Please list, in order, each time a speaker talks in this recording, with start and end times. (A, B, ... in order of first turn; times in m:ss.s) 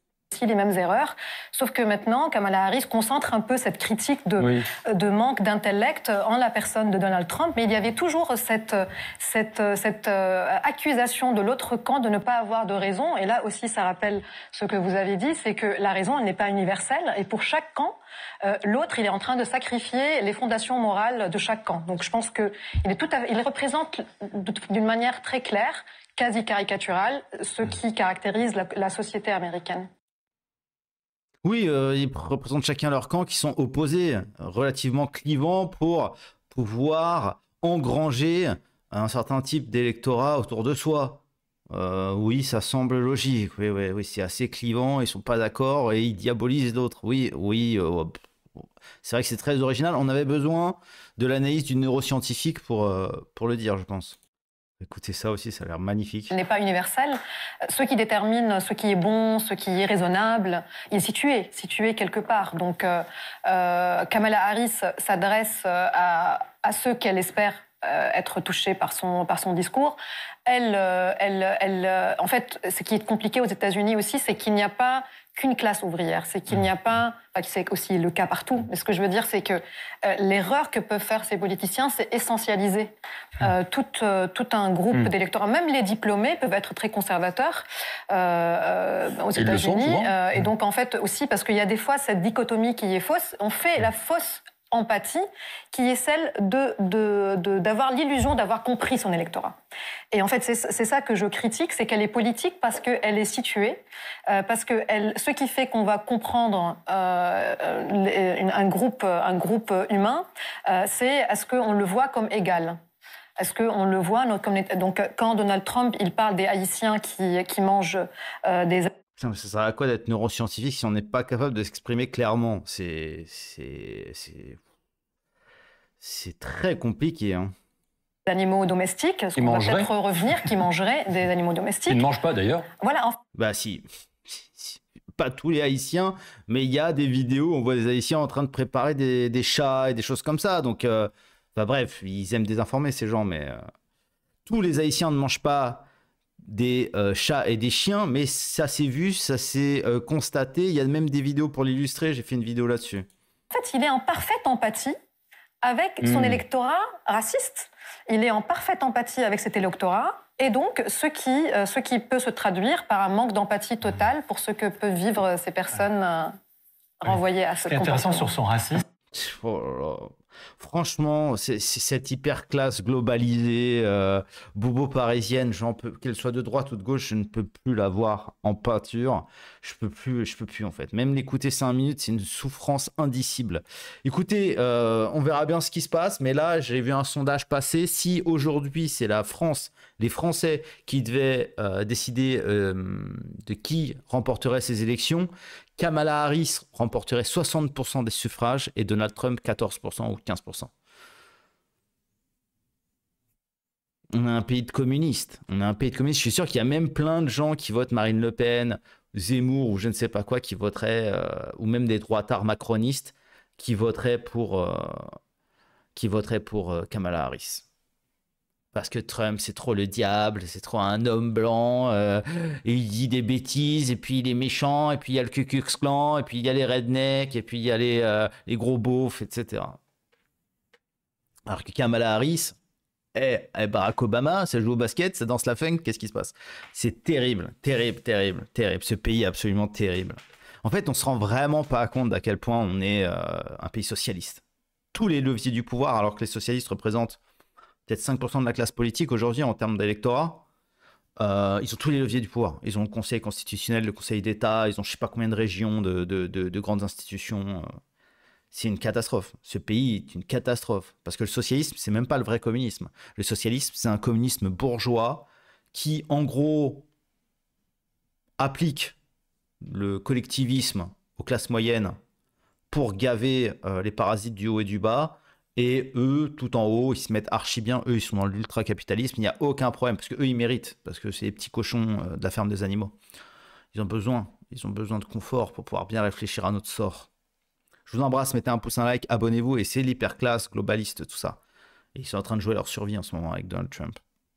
0:00.3-0:29.9 A
0:04.4-0:04.7 B
0:31.4-0:48.2 C
0:49.0-0:54.2 C
0:54.8-0:56.3 C
0:56.3-1:39.6 A
1:29.3-1:30.1 B
1:40.1-1:52.8 A
1:53.4-1:58.9 A
1:59.2-2:04.6 C
2:06.0-2:07.5 C
2:08.2-2:12.0 A
2:09.4-2:09.9 B
2:11.9-2:12.7 B
2:12.8-2:13.2 A
2:13.3-2:23.6 C
2:24.4-2:25.9 C
2:26.4-2:33.1 C
2:33.5-2:34.9 A
2:35.6-2:46.3 A
2:36.0-2:36.4 B
2:47.0-2:48.4 A
2:47.7-2:48.8 B
2:49.1-3:20.7 C
3:24.1-3:35.1 C
3:35.9-3:37.6 C
3:38.7-3:49.8 C
3:51.5-3:52.6 C
3:53.1-4:07.2 C
4:07.9-4:10.4 C
4:11.2-4:17.7 C
4:18.5-4:26.8 C
4:28.4-4:29.0 C
4:29.6-4:31.9 C
4:32.7-4:42.9 C
4:43.7-4:47.1 C
4:47.9-4:51.4 C
4:51.9-4:54.0 C